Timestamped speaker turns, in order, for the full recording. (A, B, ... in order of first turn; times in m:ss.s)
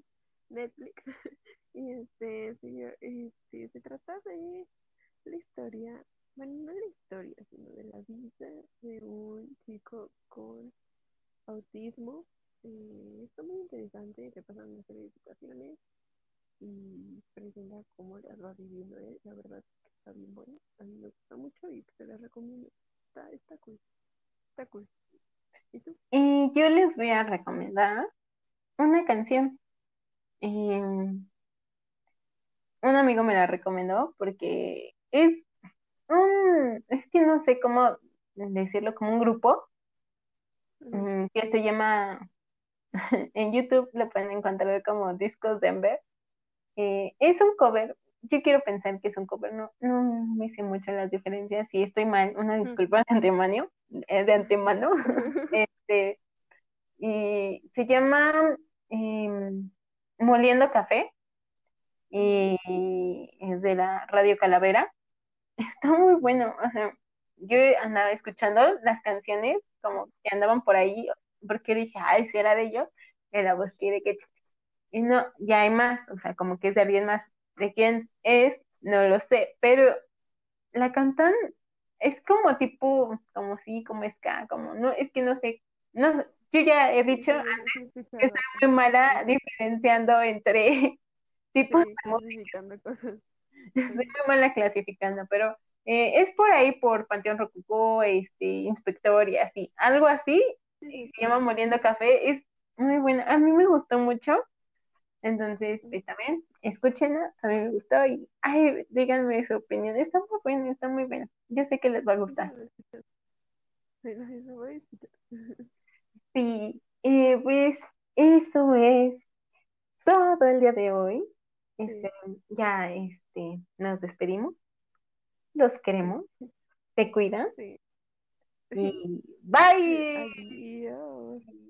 0:00.5-0:04.7 A
0:05.2-0:10.7 A
0:11.5-0:15.8 A
0:16.6-0:23.8 A
0:24.6-0:24.9 A
0:25.7-0:26.0 A
0:26.1-0:28.1 B
0:28.8-0:29.6 B
0:30.4-0:31.3 B
0:32.8-0:35.5 B
0:36.1-0:39.7 B
0:40.8-0:41.1 A
0:40.9-0:42.3 B
0:43.0-0:46.0 B
0:46.8-0:56.2 B
0:54.4-0:55.6 A
0:57.0-1:01.1 B
1:02.1-1:04.9 B
1:02.2-1:02.5 A
1:05.6-1:14.3 B
1:14.9-1:19.9 B
1:20.8-1:21.4 B
1:22.0-1:31.0 B
1:27.1-1:29.4 A
1:31.5-1:32.5 B
1:31.7-1:33.2 A
1:33.8-1:44.4 B
1:33.9-1:34.2 A
1:40.8-1:41.5 A
1:45.2-1:52.5 B
1:52.3-1:53.0 A
1:54.0-1:55.7 A
1:56.3-1:59.3 B
2:00.0-2:01.2 B
2:01.8-2:04.6 B
2:05.6-2:06.2 B
2:06.0-2:06.4 A
2:07.0-2:07.5 B
2:08.7-2:09.0 A
2:08.8-2:10.5 B
2:09.9-2:11.5 A